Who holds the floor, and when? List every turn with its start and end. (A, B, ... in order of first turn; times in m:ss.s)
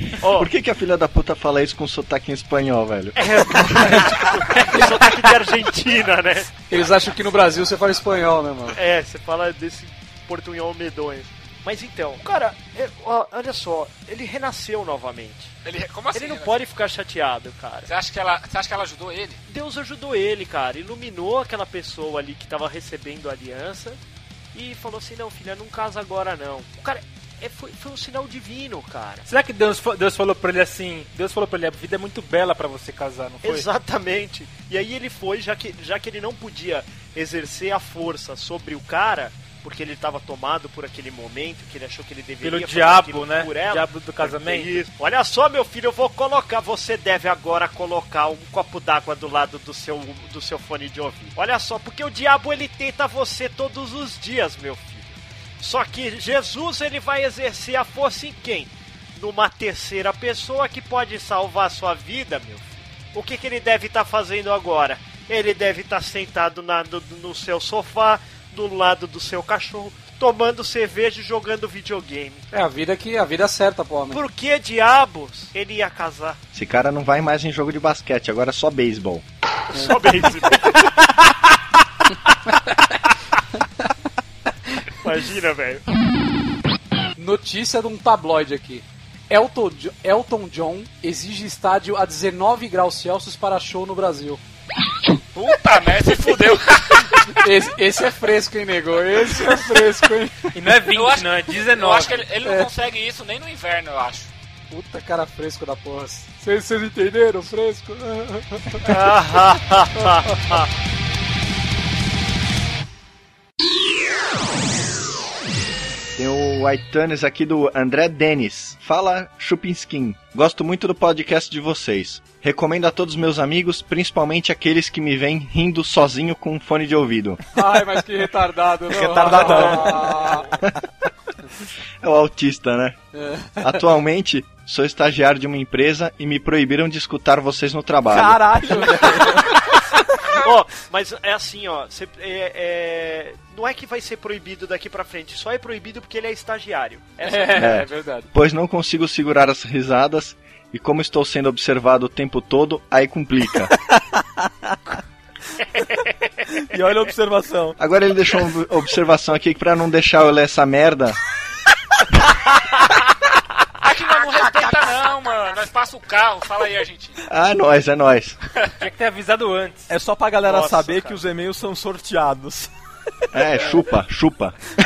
0:00.2-0:00.5 A
0:00.3-0:03.2 B
0:03.2-0:06.5 A
0:06.7-0:08.8 C
0:08.8-0:15.5 A
0:15.6-0:16.7 D
0:16.1-0:17.9 A
0:17.9-0:19.4 D
0:19.5-0:24.0 A
0:24.5-0:29.3 A
0:29.3-0:33.7 E
0:33.4-1:12.4 A
0:42.4-0:44.9 E
1:12.5-1:14.2 C
1:14.1-1:16.4 A
1:16.5-1:19.2 B
1:19.7-1:21.0 A
1:22.5-1:23.0 C
1:25.0-1:25.8 A
1:27.2-1:34.4 C
1:35.3-1:37.4 D
1:37.4-1:40.5 C
1:40.5-1:42.3 E
1:40.9-1:44.3 D
1:42.4-1:42.7 C
1:44.7-1:49.0 C
1:48.8-1:50.7 A
1:56.2-2:07.4 B
2:07.5-2:10.5 C
2:08.9-2:10.7 F
2:12.0-2:13.0 B
2:13.1-2:13.8 C
2:13.6-2:18.4 B
2:18.1-2:19.6 F
2:18.7-2:19.4 C
2:20.3-2:27.7 A
2:27.2-2:28.3 C
2:27.6-2:33.7 B
2:34.0-2:35.0 F
2:36.5-2:37.8 F
2:37.8-2:41.2 B
2:43.8-2:47.2 D
2:47.3-2:48.4 B
2:48.8-2:49.9 E
2:49.9-2:52.7 F
2:50.4-2:51.2 A
2:53.3-2:54.6 B